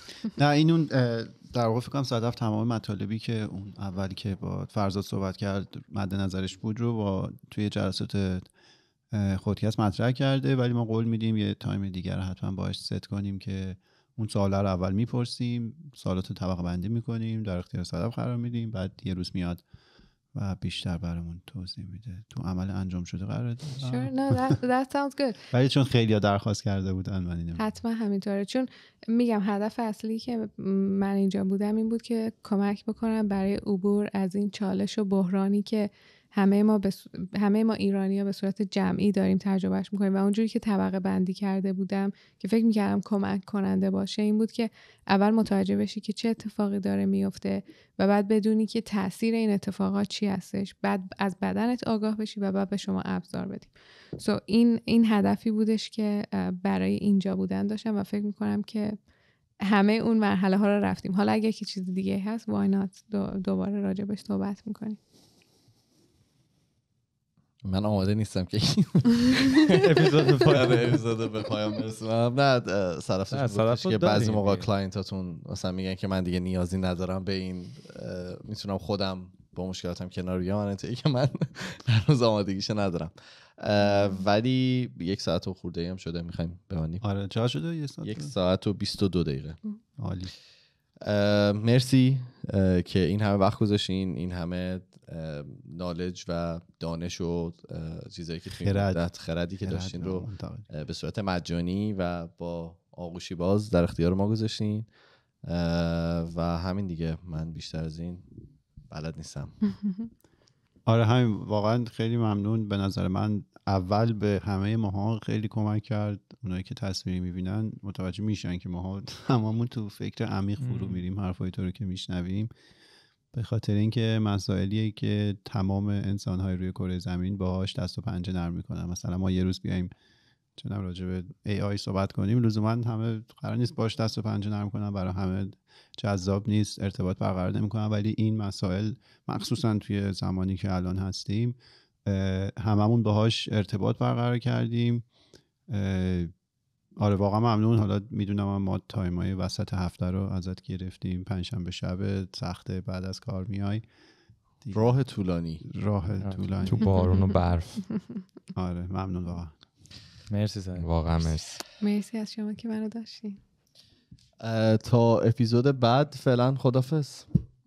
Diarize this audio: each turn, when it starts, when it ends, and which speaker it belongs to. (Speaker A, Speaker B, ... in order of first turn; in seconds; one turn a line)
Speaker A: 0.4-8.5
Speaker A: 9.1-19.6
Speaker A: 20.3-24.5
Speaker B: 23.8-25.4
Speaker A: 25.5-27.7
Speaker B: 27.6-59.0
Speaker B: 59.6-65.0
Speaker C: 67.6-87.0
Speaker D: 69.8-71.0
Speaker D: 73.3-74.7
Speaker A: 87.0-88.3
Speaker C: 88.0-89.6
Speaker A: 90.0-90.3
Speaker C: 91.0-104.9
Speaker A: 98.6-99.0
Speaker A: 99.6-100.7
Speaker C: 105.4-108.3
Speaker C: 108.9-109.6
Speaker A: 110.9-122.5
Speaker D: 120.6-121.0
Speaker A: 123.3-129.9
Speaker A: 130.6-145.1
Speaker A: 145.7-146.3
Speaker A: 147.0-153.8
Speaker A: 154.6-154.9
Speaker C: 154.7-155.6
Speaker A: 155.6-156.8
Speaker D: 156.2-156.9
Speaker E: 156.6-158.0
Speaker A: 158.6-159.6
Speaker D: 160.3-160.9
Speaker E: 160.8-161.6
Speaker B: 161.8-163.4
Speaker C: 164.4-167.3